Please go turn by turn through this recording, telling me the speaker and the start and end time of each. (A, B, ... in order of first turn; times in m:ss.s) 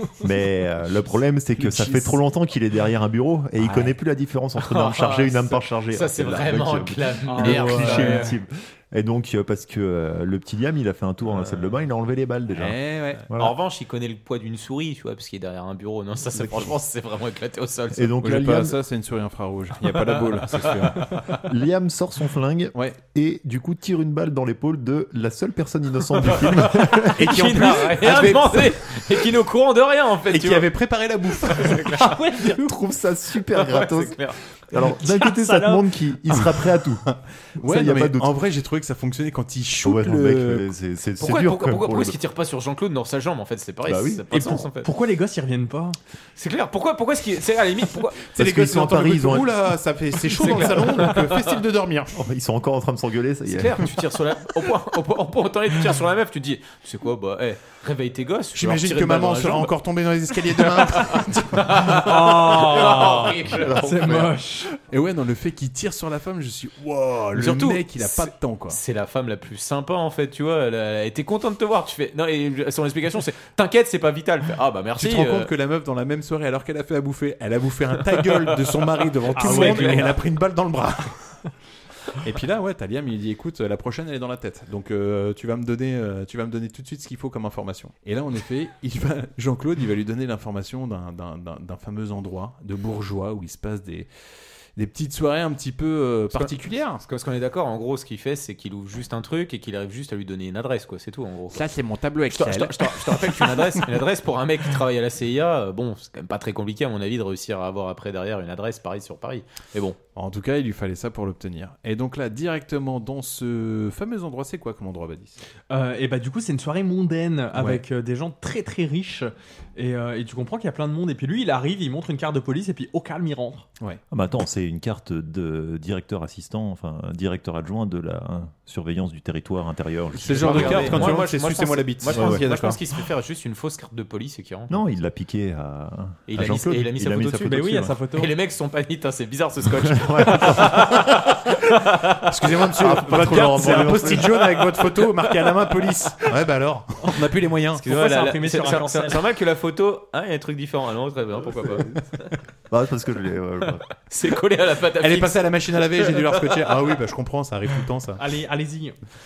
0:00.2-0:13.6 A
0:01.0-0:02.2 B
0:04.6-0:08.3 C
0:07.3-0:08.4 D
0:12.5-0:13.2 B
0:13.3-0:18.2 C
0:17.9-0:18.8 A
0:18.2-0:21.2 B
0:19.9-0:21.4 C
0:21.4-0:27.5 A
0:26.3-0:30.7 C
0:27.1-0:29.3 B
0:30.3-0:32.0 B
0:31.3-0:32.2 C
0:31.9-0:32.8 D
0:32.4-0:37.1 A
0:33.5-0:34.4 C
0:34.8-0:35.9 D
0:37.6-0:40.7 B
0:37.6-0:38.3 A
0:39.8-0:42.2 A
0:41.2-0:44.9 C
0:43.8-0:44.5 A
0:44.3-0:46.0 D
0:46.4-0:48.2 C
0:48.3-0:52.1 B
0:48.4-0:49.7 A
0:50.4-0:51.5 C
0:50.4-0:50.8 A
0:52.1-0:53.9 A
0:53.4-0:59.7 C
0:58.5-1:02.0 B
1:00.5-1:04.2 C
1:01.9-1:04.7 D
1:03.5-1:04.3 A
1:04.9-1:08.8 B
1:07.3-1:15.5 C
1:15.0-1:21.4 B
1:18.1-1:20.2 C
1:19.3-1:20.1 D
1:22.2-1:34.1 B
1:34.8-1:37.0 B
1:36.3-1:41.7 C
1:41.5-1:44.0 B
1:42.3-1:50.0 C
1:50.2-1:55.4 B
1:55.7-2:03.6 D
1:57.5-1:57.8 B
2:04.1-2:11.2 A
2:10.1-2:12.8 B
2:10.4-2:14.8 C
2:12.1-2:12.5 A
2:14.7-2:18.0 A
2:16.3-2:22.7 C
2:17.4-2:18.3 D
2:19.8-2:21.1 A
2:22.3-2:27.8 B
2:22.8-2:24.7 A
2:27.8-2:32.4 C
2:27.8-2:29.2 D
2:32.7-2:33.8 A
2:33.6-2:36.7 C
2:35.0-2:38.2 B
2:38.2-2:38.9 D